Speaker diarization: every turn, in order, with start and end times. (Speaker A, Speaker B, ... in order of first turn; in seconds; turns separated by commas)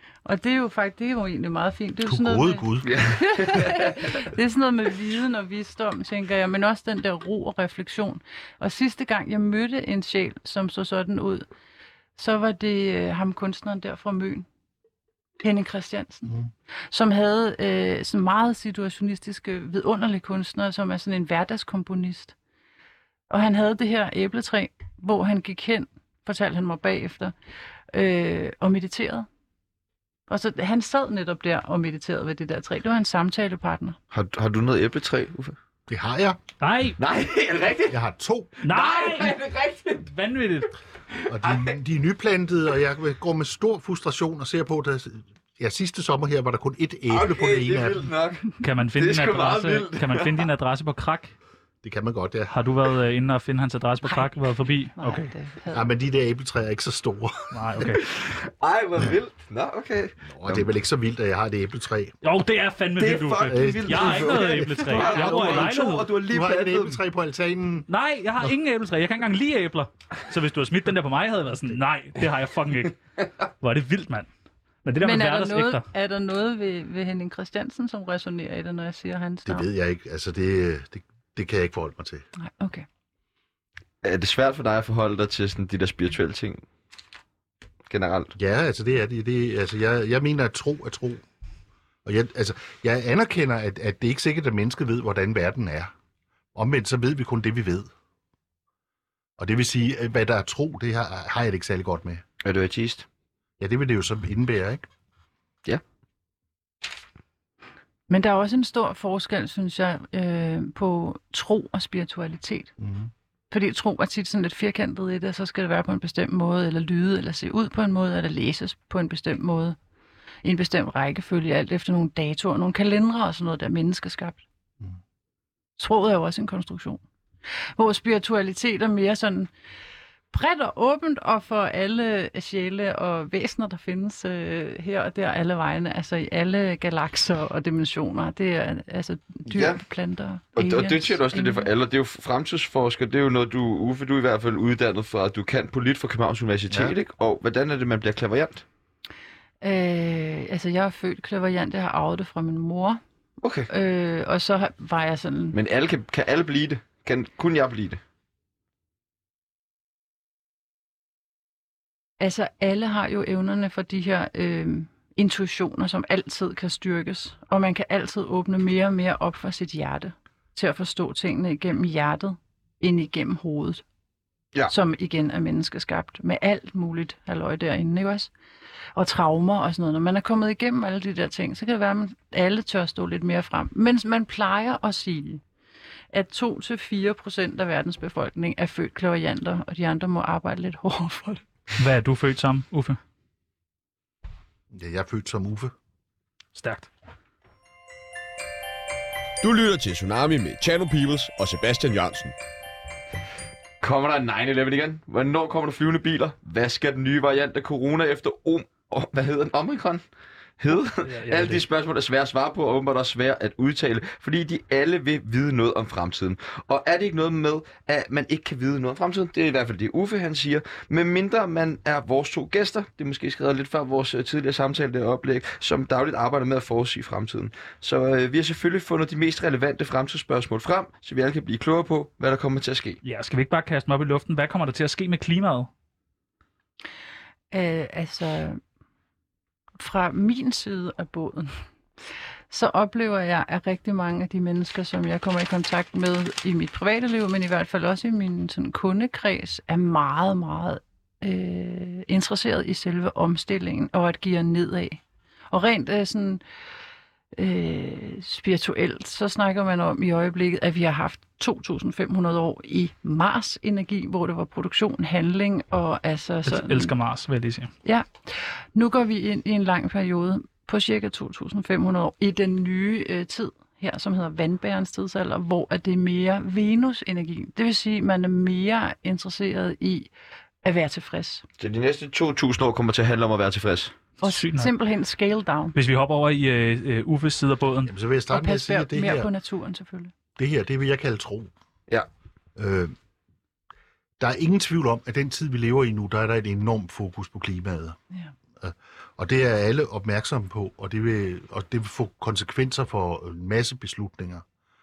Speaker A: 0.2-11.4, Speaker B: 2.0-3.1, Speaker C: 2.8-4.2, Speaker A: 12.2-14.4, Speaker A: 15.4-16.3, Speaker A: 16.9-22.3, Speaker A: 23.3-27.3, Speaker A: 27.9-29.2, Speaker A: 30.3-34.0, Speaker C: 34.1-35.5, Speaker B: 35.9-36.4, Speaker D: 36.6-37.0, Speaker C: 37.0-38.0, Speaker B: 37.9-38.5, Speaker C: 38.6-40.1, Speaker D: 38.6-39.4, Speaker D: 40.1-40.7, Speaker C: 41.1-41.7, Speaker B: 41.3-48.1, Speaker C: 47.1-50.5, Speaker D: 48.6-51.3, Speaker B: 51.8-52.5, Speaker D: 52.5-55.3, Speaker A: 54.0-54.3, Speaker A: 54.9-55.9, Speaker B: 55.7-57.9, Speaker D: 57.5-58.1, Speaker C: 58.0-60.6, Speaker B: 60.2-62.2, Speaker D: 62.2-66.1, Speaker C: 63.0-67.0, Speaker B: 63.4-67.9, Speaker D: 67.9-73.0, Speaker D: 73.6-74.3, Speaker D: 74.8-75.8, Speaker A: 75.0-79.7, Speaker B: 79.4-82.2, Speaker A: 82.4-82.8, Speaker C: 84.0-86.6, Speaker C: 87.9-88.3, Speaker B: 88.3-91.2, Speaker B: 92.0-95.9, Speaker B: 96.5-97.9, Speaker B: 99.4-102.2, Speaker C: 102.4-103.0, Speaker B: 103.6-104.9, Speaker A: 108.1-112.7, Speaker B: 112.8-113.1, Speaker A: 113.5-119.8, Speaker A: 120.4-124.4, Speaker A: 125.8-127.0, Speaker A: 127.8-129.5, Speaker A: 130.3-141.7, Speaker C: 139.5-139.8, Speaker C: 140.6-148.6, Speaker B: 146.7-146.9, Speaker A: 149.6-153.0, Speaker C: 153.4-153.7, Speaker A: 153.7-155.6, Speaker C: 155.5-158.0, Speaker A: 162.2-173.8, Speaker A: 174.7-178.3, Speaker A: 178.9-185.4, Speaker A: 186.1-191.4, Speaker D: 191.8-193.0, Speaker B: 194.7-195.7, Speaker D: 196.5-196.9, Speaker E: 199.4-202.3, Speaker C: 203.8-210.0, Speaker C: 210.6-233.0, Speaker D: 211.0-211.6, Speaker D: 233.0-235.7, Speaker A: 237.5-238.6, Speaker A: 239.8-241.6, Speaker A: 242.5-256.4, Speaker A: 257.4-266.9, Speaker D: 266.4-267.7, Speaker A: 267.8-280.1, Speaker A: 280.6-281.4, Speaker C: 281.6-283.9, Speaker D: 284.2-284.7, Speaker A: 284.2-285.7, Speaker D: 285.7-287.9, Speaker B: 287.8-289.3, Speaker A: 288.3-290.1, Speaker B: 290.4-291.5, Speaker B: 292.6-292.9, Speaker B: 294.2-298.0, Speaker B: 298.6-304.4